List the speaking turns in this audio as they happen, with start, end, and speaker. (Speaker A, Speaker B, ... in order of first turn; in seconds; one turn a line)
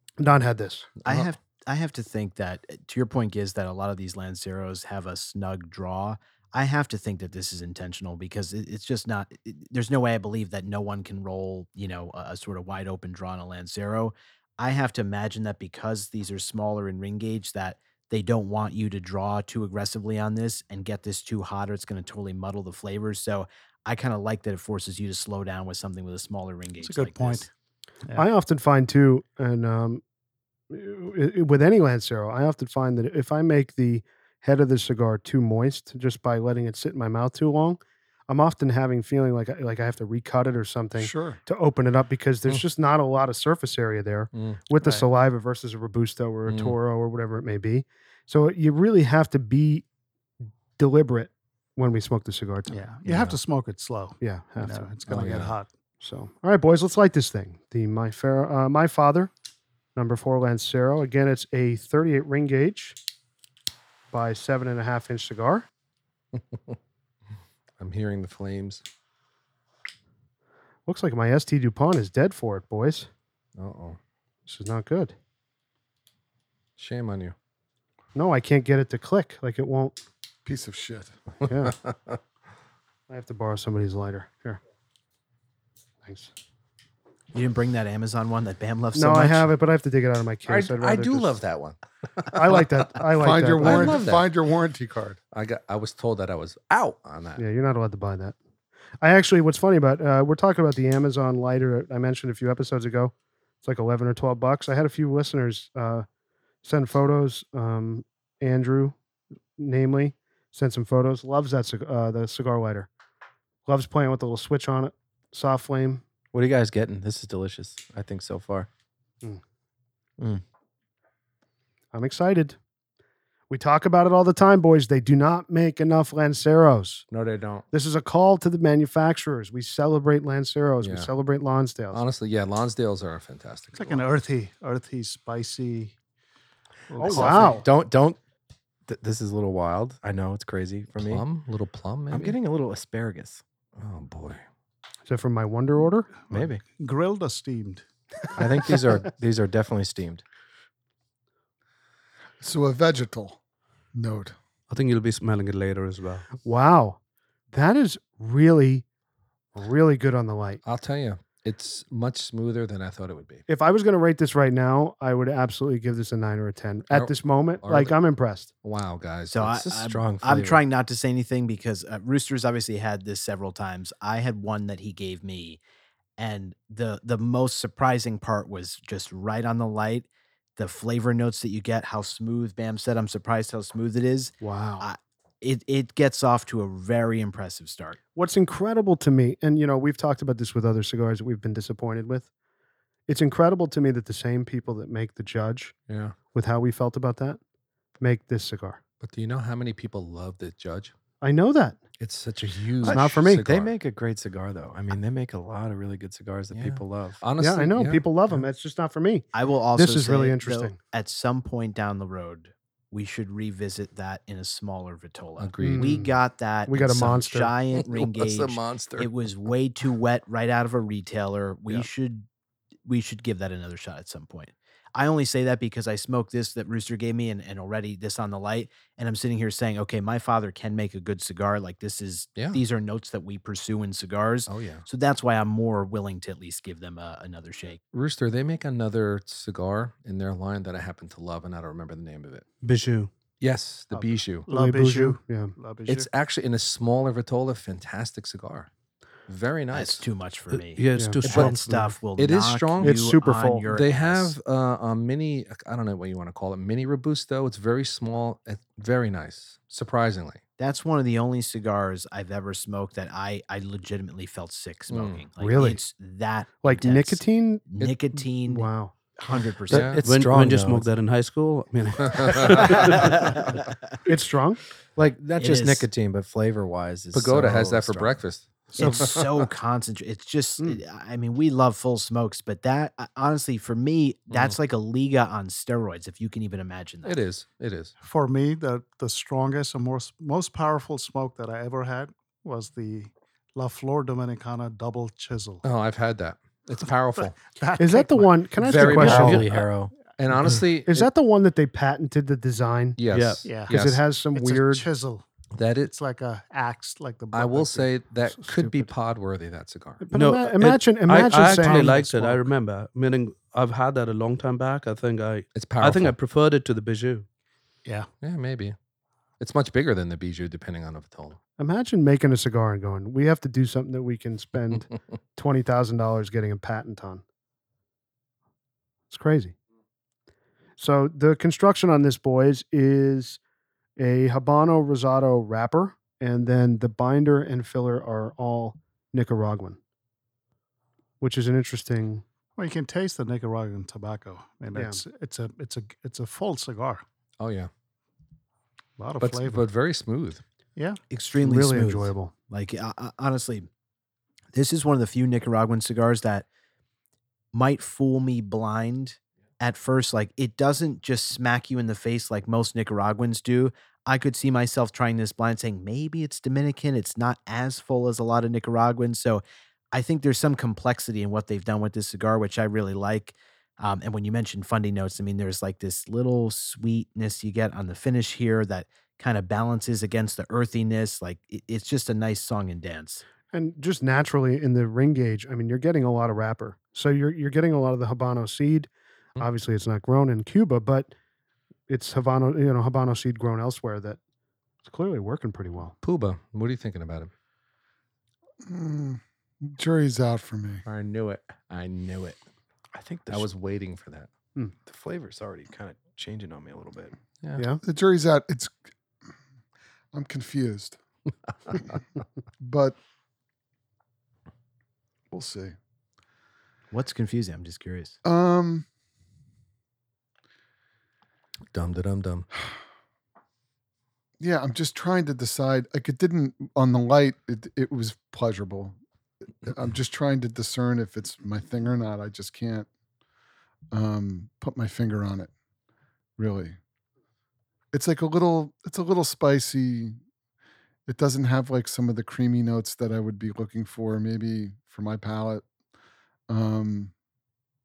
Speaker A: 0.2-0.9
Speaker B: 1.1-27.5
Speaker C: 26.8-27.5
Speaker A: 28.1-30.0
Speaker A: 30.7-49.8
Speaker D: 41.0-41.4
Speaker E: 44.3-44.6
Speaker C: 44.8-45.1
Speaker E: 46.5-46.8
Speaker A: 50.8-52.8
Speaker C: 52.7-55.7
Speaker E: 53.1-53.3
Speaker A: 54.2-54.9
Speaker E: 55.1-55.5
Speaker A: 56.0-59.3
Speaker A: 60.0-63.0
Speaker A: 64.1-65.7
Speaker E: 66.4-66.8
Speaker E: 67.8-68.8
Speaker A: 70.9-73.1
Speaker E: 73.6-74.0
Speaker A: 74.5-75.2
Speaker E: 76.8-77.3
Speaker A: 78.2-80.0
Speaker D: 80.5-81.1
Speaker A: 81.5-81.8
Speaker E: 81.6-82.2
Speaker A: 83.1-84.6
Speaker A: 86.0-86.3
Speaker B: 87.3-89.5
Speaker A: 89.0-91.3
Speaker E: 90.5-92.7
Speaker A: 92.3-94.0
Speaker D: 93.1-95.2
Speaker E: 93.6-94.3
Speaker E: 95.3-97.4
Speaker A: 97.4-98.4
Speaker A: 99.0-106.1
Speaker A: 106.6-109.0
Speaker A: 109.6-112.9
Speaker A: 113.7-116.0
Speaker F: 116.3-118.7
Speaker A: 121.9-122.6
Speaker A: 123.5-127.1
Speaker E: 127.1-127.7
Speaker A: 127.7-132.0
Speaker E: 130.8-131.1
Speaker E: 131.9-134.1
Speaker C: 133.7-135.9
Speaker C: 136.9-137.7
Speaker A: 137.0-137.7
Speaker F: 137.1-138.2
Speaker F: 138.9-141.3
Speaker E: 141.0-142.4
Speaker F: 142.1-143.4
Speaker E: 143.8-144.4
Speaker A: 145.1-146.1
Speaker C: 146.3-147.8
Speaker F: 146.3-146.6
Speaker F: 148.3-150.2
Speaker D: 152.4-153.4
Speaker D: 153.9-154.3
Speaker G: 154.7-156.3
Speaker A: 156.4-157.0
Speaker A: 157.5-158.8
Speaker A: 159.6-160.6
Speaker E: 160.6-163.4
Speaker A: 163.5-168.5
Speaker E: 166.9-168.0
Speaker E: 168.6-169.5
Speaker B: 169.3-175.6
Speaker F: 169.5-170.6
Speaker B: 176.2-188.0
Speaker A: 184.4-184.9
Speaker A: 188.2-192.3
Speaker A: 193.1-195.7
Speaker E: 195.9-196.2
Speaker A: 196.3-197.4
Speaker A: 198.0-198.8
Speaker E: 199.0-200.9
Speaker A: 201.2-201.8
Speaker E: 202.0-203.7
Speaker F: 202.8-207.2
Speaker A: 202.9-203.4
Speaker E: 206.5-208.4
Speaker A: 207.4-210.8
Speaker B: 209.3-222.2
Speaker E: 215.4-216.0
Speaker A: 215.6-216.2
Speaker A: 216.7-217.5
Speaker E: 217.8-219.1
Speaker B: 222.9-237.8
Speaker E: 234.5-234.8
Speaker E: 237.9-242.5
Speaker G: 242.6-243.1
Speaker E: 243.4-244.5
Speaker C: 243.9-246.1
Speaker A: 244.5-245.5
Speaker E: 245.9-248.7
Speaker E: 249.3-250.0
Speaker B: 249.7-254.3
Speaker G: 250.7-252.0
Speaker A: 251.0-251.2
Speaker E: 251.3-251.6
Speaker E: 252.2-252.9
Speaker A: 252.8-253.6
Speaker E: 253.7-260.4
Speaker B: 260.6-270.0
Speaker E: 264.9-265.2
Speaker A: 265.4-265.8
Speaker A: 266.6-267.6
Speaker A: 268.4-268.9
Speaker E: 269.7-270.0
Speaker F: 269.7-270.9
Speaker G: 269.9-273.4
Speaker E: 272.1-272.7
Speaker B: 272.6-273.6
Speaker A: 274.1-274.6
Speaker F: 275.0-278.2
Speaker B: 275.4-275.9
Speaker E: 277.1-279.5
Speaker B: 278.8-287.2
Speaker A: 278.8-279.0
Speaker E: 287.0-287.9
Speaker C: 288.0-295.6
Speaker E: 295.6-297.6
Speaker C: 297.1-298.7
Speaker A: 297.8-299.5
Speaker E: 298.6-299.6
Speaker F: 298.7-299.9
Speaker E: 300.2-301.1
Speaker A: 300.9-303.0
Speaker E: 303.0-304.0
Speaker G: 303.1-303.5
Speaker C: 303.4-303.7
Speaker A: 303.7-304.9
Speaker C: 304.3-305.2
Speaker E: 305.6-305.9
Speaker C: 305.8-308.9
Speaker E: 307.3-310.1
Speaker A: 310.0-312.4
Speaker G: 310.1-317.3
Speaker C: 311.6-312.0
Speaker E: 315.5-316.1
Speaker E: 318.2-318.8
Speaker E: 319.4-321.4
Speaker A: 321.6-327.2
Speaker A: 329.1-329.6
Speaker A: 330.8-333.4
Speaker A: 334.0-339.8
Speaker A: 341.2-342.2
Speaker C: 342.6-347.0
Speaker A: 344.8-345.0
Speaker E: 347.4-347.7
Speaker C: 349.0-349.7
Speaker E: 349.2-350.4
Speaker B: 351.1-353.7
Speaker A: 351.4-352.3
Speaker B: 354.5-356.5
Speaker B: 357.5-383.2
Speaker A: 383.5-391.1
Speaker A: 391.9-394.2
Speaker A: 394.8-395.9
Speaker E: 396.0-397.3
Speaker D: 398.6-400.8
Speaker E: 400.9-402.4
Speaker F: 402.9-403.5
Speaker E: 403.3-404.3
Speaker F: 404.9-407.1
Speaker D: 407.8-408.7
Speaker D: 410.1-411.0
Speaker D: 412.6-413.0
Speaker D: 415.3-415.8
Speaker B: 416.9-418.1
Speaker D: 418.2-418.9
Speaker E: 421.7-422.5
Speaker D: 424.4-429.0
Speaker D: 429.6-432.9
Speaker D: 433.9-435.5
Speaker D: 436.4-436.8
Speaker D: 437.9-440.2
Speaker D: 441.1-445.6
Speaker D: 446.5-447.1